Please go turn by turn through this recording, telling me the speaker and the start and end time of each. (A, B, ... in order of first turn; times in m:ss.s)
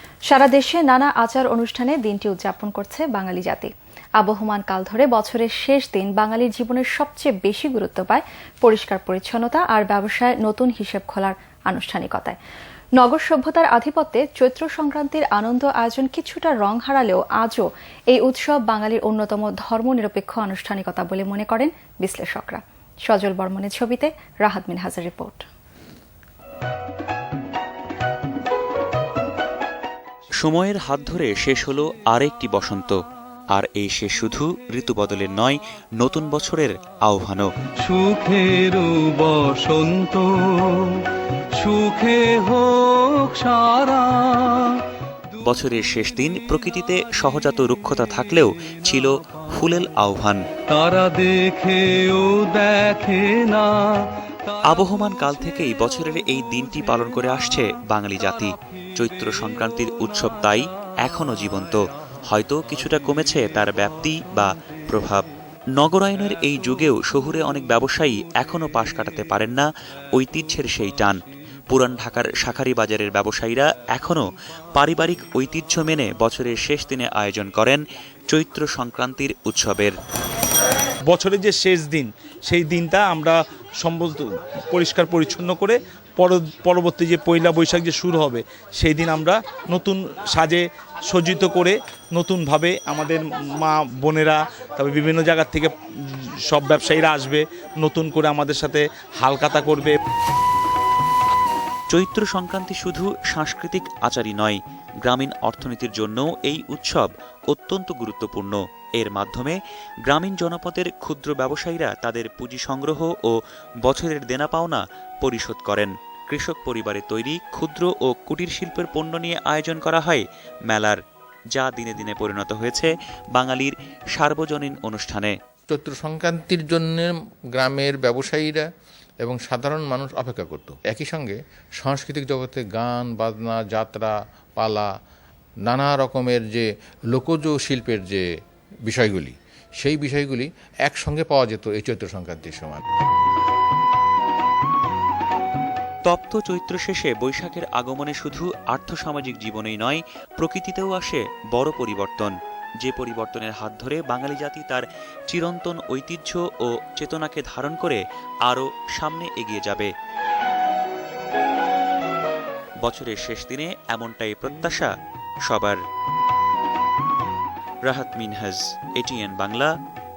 0:00.3-0:12.4 A
0:13.0-0:25.4 A
0:30.4-0:33.0 B
0:33.5-0:37.5 B
0:37.8-0:44.8 C
0:45.4-0:50.4 B
0:50.7-0:54.1 C
0:54.7-1:05.2 B
1:05.8-1:11.2 B
1:11.7-1:19.9 B
1:21.1-1:40.0 D
1:41.9-2:01.0 B
2:01.5-2:05.3 B
2:05.7-2:08.6 E
2:09.2-2:14.9 E
2:15.7-2:18.2 E
2:18.9-2:22.8 E
2:26.1-2:39.9 B
2:42.8-2:44.9 B
2:45.5-2:45.8 B
2:47.8-2:49.7 B